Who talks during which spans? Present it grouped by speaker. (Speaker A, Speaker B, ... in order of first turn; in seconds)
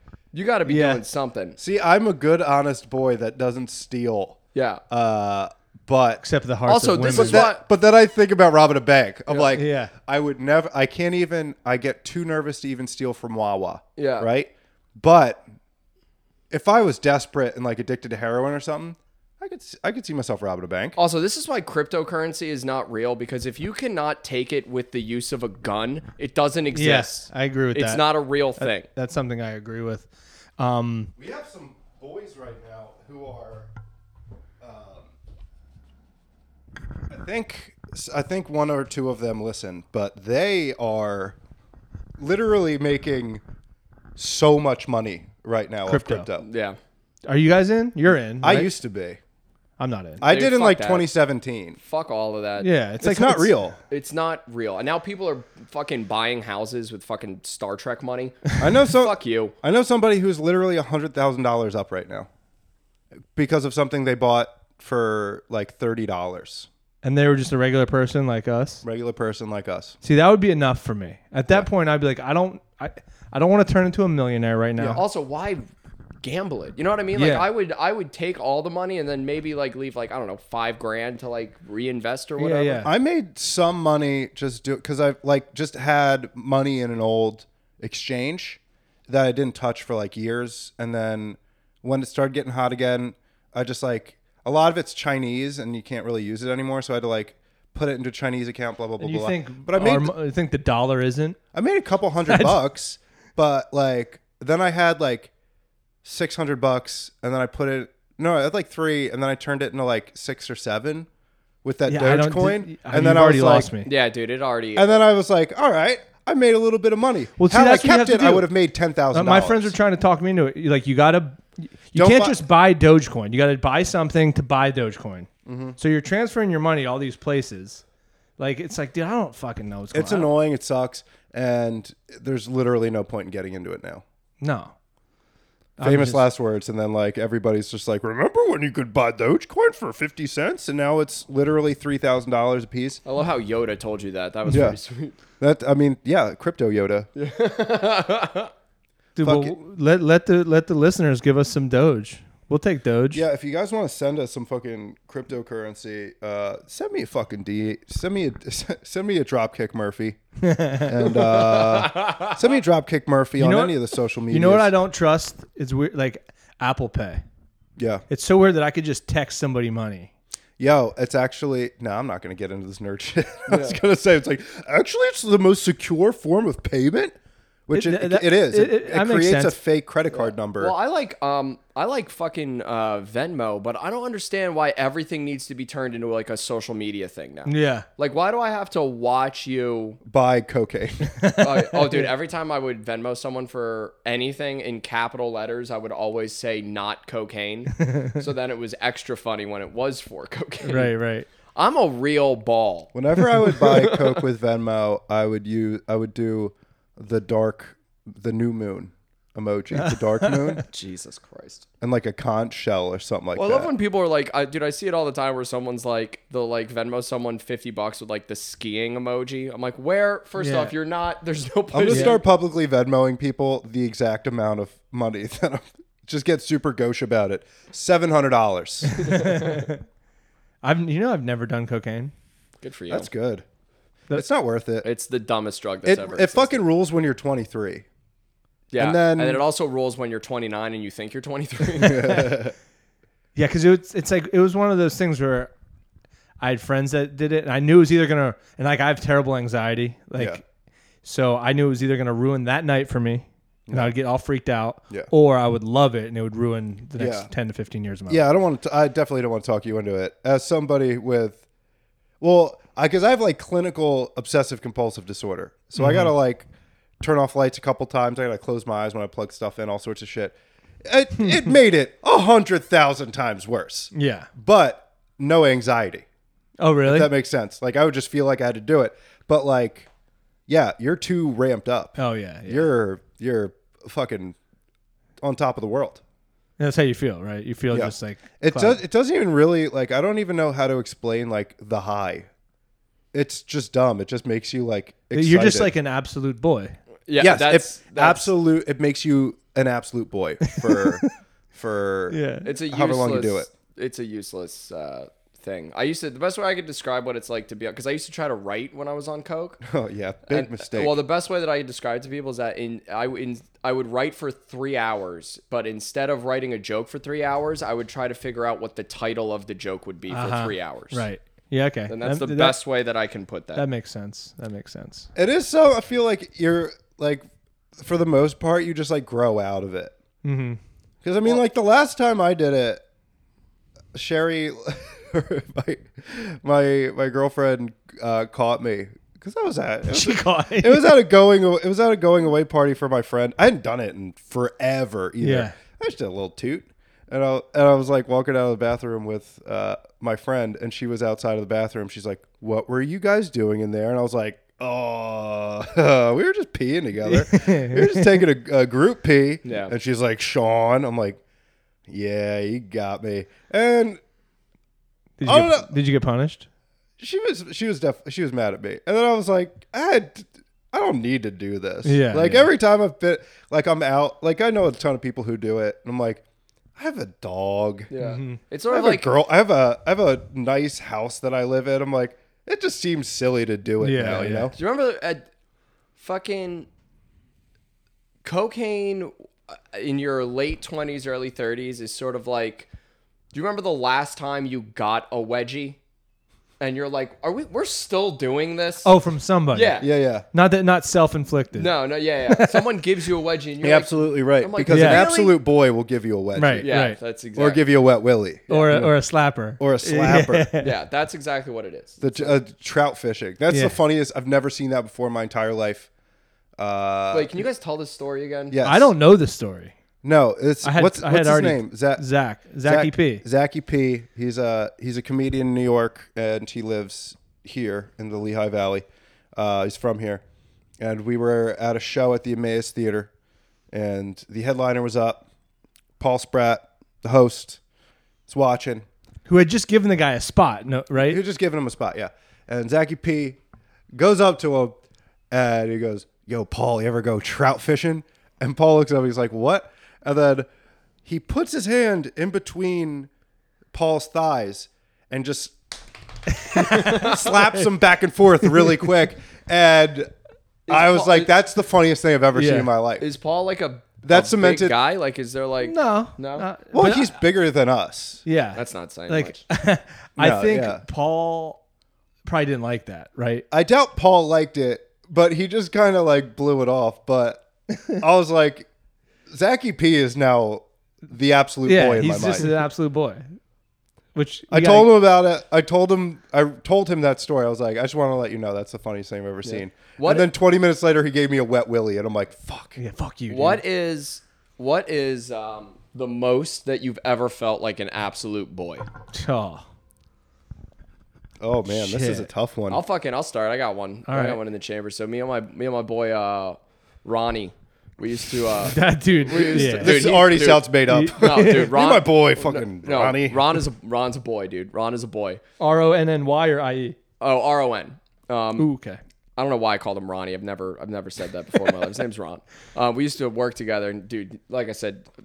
Speaker A: 0.3-1.6, 4.5-4.8, 6.7-7.6, 14.0-14.3, 20.9-28.9, 46.4-46.8, 50.2-51.1, 51.8-52.7, 53.9-59.5, 74.9-75.6, 76.2-82.8, 113.8-115.0, 143.0-145.2, 147.1-148.5, 161.3-162.3, 173.5-173.8, 180.1-190.0, 191.4-200.9, 201.5-204.2, 210.7-211.7, 213.3-222.2, 229.0-229.7, 232.6-233.1, 234.8-236.6, 238.7-242.3, 297.1-298.3, 302.4-309.6, 310.3-321.0, 321.9-323.6, 359.4-359.7, 377.9-379.1, 384.6-385.2, 386.0-386.7, 388.2-392.7, 393.3-395.8, 396.6-398.9, 399.5-399.9, 401.5-405.4, 406.6-407.6, 408.5-408.8, 410.6-412.4, 417.1-418.6, 460.7-461.3, 463.0-466.5, 468.5-469.4, 489.4-490.3, 493.3-498.9, 502.7-515.4, 517.2-518.7, 519.4-525.0
Speaker B: 0.7-1.0, 6.2-7.5, 9.5-9.9, 26.7-31.1, 45.9-46.3, 47.2-48.7, 49.8-50.2, 52.6-53.5, 67.0-68.8, 70.0-75.0, 77.1-77.5, 82.4-82.9, 99.0-101.4, 102.2-102.6, 111.9-113.9, 117.4-118.5, 119.1-127.8, 128.4-130.3, 134.4-134.7, 135.8-136.2, 149.2-153.2, 160.4-161.0, 163.4-163.8, 164.3-167.2, 168.1-170.1, 177.7-179.6, 187.4-187.8, 191.2-192.1, 197.8-198.2, 200.6-201.3, 209.8-210.6, 220.4-220.7, 221.9-222.1, 228.9-229.8, 230.6-232.1, 241.8-242.3, 243.3-245.5, 246.4-250.4, 251.0-258.2, 265.8-266.1, 271.2-271.5, 273.9-274.3, 276.6-277.1, 282.0-282.7, 286.6-288.8, 295.1-296.8, 300.4-301.1, 302.1-302.5, 320.1-322.6, 323.6-325.1, 330.2-330.6, 339.9-340.9, 345.2-345.5, 357.0-358.2, 365.2-366.5, 371.8-372.5, 378.0-378.4, 383.8-384.5, 398.8-401.7, 402.3-402.6, 404.7-405.1, 406.3-407.0, 408.5-410.8, 413.5-413.8, 418.6-419.7, 420.6-423.2, 439.3-441.2, 456.4-457.7, 458.4-458.7, 462.3-462.7, 465.6-467.1, 468.2-471.6, 472.2-473.4, 481.6-483.2, 484.1-484.9, 492.8-493.6, 499.1-499.6, 501.7-502.3, 504.1-504.4, 508.6-510.2, 510.9-511.8, 515.6-517.0, 518.6-519.0
Speaker C: 1.6-4.4, 4.9-6.2, 7.1-15.4, 16.5-20.9, 31.1-33.7, 34.6-35.1, 37.1-41.4, 42.2-43.4, 44.1-46.5, 48.4-49.2, 50.2-51.8, 53.0-53.8, 58.6-62.3, 63.3-66.7, 68.8-70.0, 82.8-100.1, 101.5-105.3, 106.0-111.1, 111.6-113.7, 114.8-119.7, 121.9-122.4, 125.5-125.8, 129.9-134.0, 135.8-143.0, 144.5-144.8, 145.4-147.1, 149.2-149.6, 153.1-160.2, 160.8-164.7, 167.8-168.0, 170.6-177.1, 177.7-180.7, 190.0-191.1, 202.9-210.6, 211.8-213.7, 221.7-229.0, 232.9-233.4, 234.1-234.9, 235.8-237.8, 238.8-239.4, 241.7-242.5, 253.7-253.9, 257.0-257.3, 258.1-261.4, 262.2-266.5, 267.0-276.0, 276.8-279.9, 280.5-284.4, 285.2-286.0, 287.7-292.3, 293.1-295.7, 297.2-303.5, 309.6-311.0, 325.1-327.2, 327.8-329.9, 331.0-332.8, 333.9-361.2, 361.9-364.0, 365.2-365.7, 367.0-376.2, 376.8-377.9, 378.7-384.5, 399.8-400.3, 403.6-406.7, 407.3-409.0, 409.6-410.5, 412.0-415.9, 416.6-417.4, 418.5-418.9, 420.0-422.1, 422.6-430.2, 430.8-433.1, 433.7-435.2, 436.0-437.6, 438.3-438.9, 441.0-443.4, 443.9-444.8, 445.3-450.5, 451.0-453.1, 453.7-455.6, 456.5-460.1, 460.7-463.0, 464.0-464.8, 466.7-468.2, 470.2-470.8, 473.5-478.7, 479.3-482.5, 484.5-492.8, 501.4-502.8, 509.3-513.6